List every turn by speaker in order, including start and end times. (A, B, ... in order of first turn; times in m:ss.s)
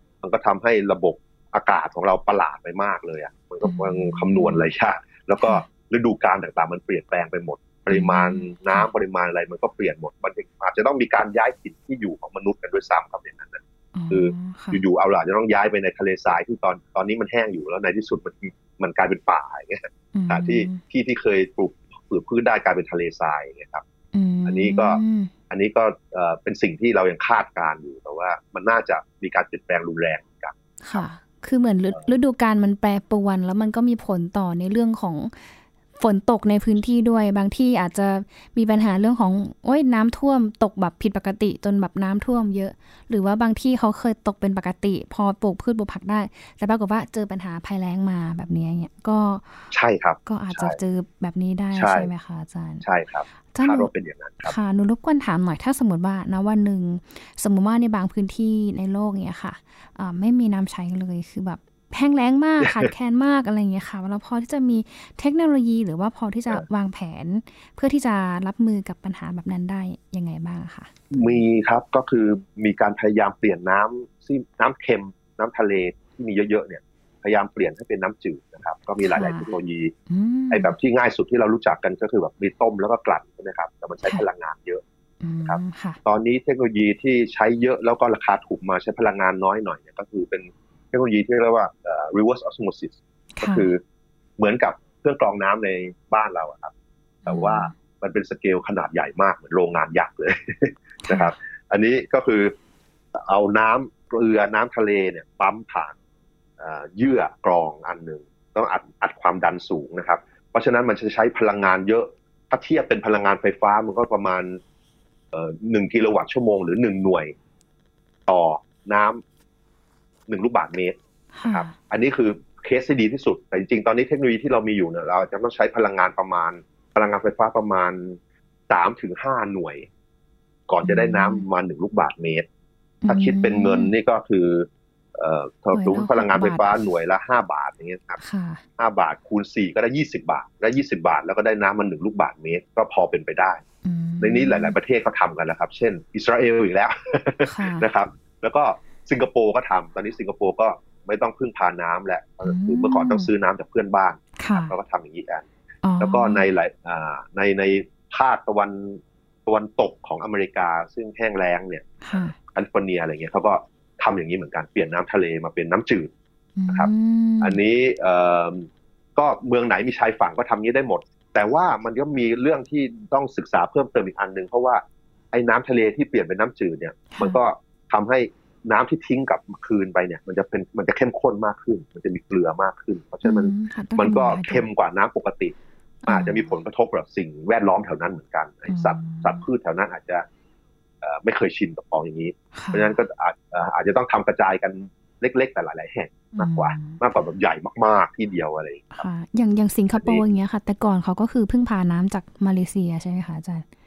0:00.2-0:23.8 A
0:03.6-0:04.6 B
0:05.4-0:05.6 B
0:07.9-0:08.9 B
0:13.9-0:14.8 B
0:20.1-0:20.8 B
0:24.1-0:25.3 B
0:24.4-0:31.0 A
0:30.8-0:49.7 B
0:49.7-0:50.8 A
0:50.2-0:52.8 B
0:51.7-0:52.1 A
0:52.8-0:54.5 A
0:53.5-0:53.9 B
0:54.4-1:11.4 B
1:02.6-1:02.9 A
1:11.1-1:19.9 A
1:19.0-1:19.5 B
1:20.1-1:20.8 B
1:20.5-1:24.8 A
1:25.2-1:26.0 B
1:25.4-1:33.8 A
1:33.4-1:33.7 B
1:34.4-1:36.7 A
1:37.2-1:37.7 B
1:37.3-1:42.5 A
1:41.0-1:41.3 B
1:43.1-1:46.0 A
1:46.6-1:54.6 A
1:55.3-1:57.3 A
1:58.3-1:59.2 A
2:00.3-2:01.0 A
2:01.3-2:01.8 B
2:01.5-2:08.2 A
2:08.7-2:09.9 A
2:10.7-2:12.4 A
2:10.8-2:11.4 B
2:13.0-2:13.9 B
2:13.1-2:18.2 A
2:15.7-2:16.8 B
2:18.2-2:18.6 B
2:18.8-2:23.6 A
2:23.8-2:24.8 B
2:24.2-2:35.5 A
2:27.4-2:27.9 B
2:32.4-2:33.3 B
2:34.4-2:34.7 B
2:35.8-2:36.4 B
2:36.0-2:46.1 A
2:42.0-2:42.3 B
2:46.6-2:47.6 B
2:47.4-3:05.5 A
2:57.1-2:57.4 B
3:03.2-3:04.7 B
3:06.0-3:06.5 B
3:06.1-3:10.2 A
3:08.7-3:09.4 B
3:11.0-3:19.0 A
3:12.5-3:13.0 B
3:16.4-3:17.0 B
3:18.9-3:23.6 B
3:20.0-3:20.2 A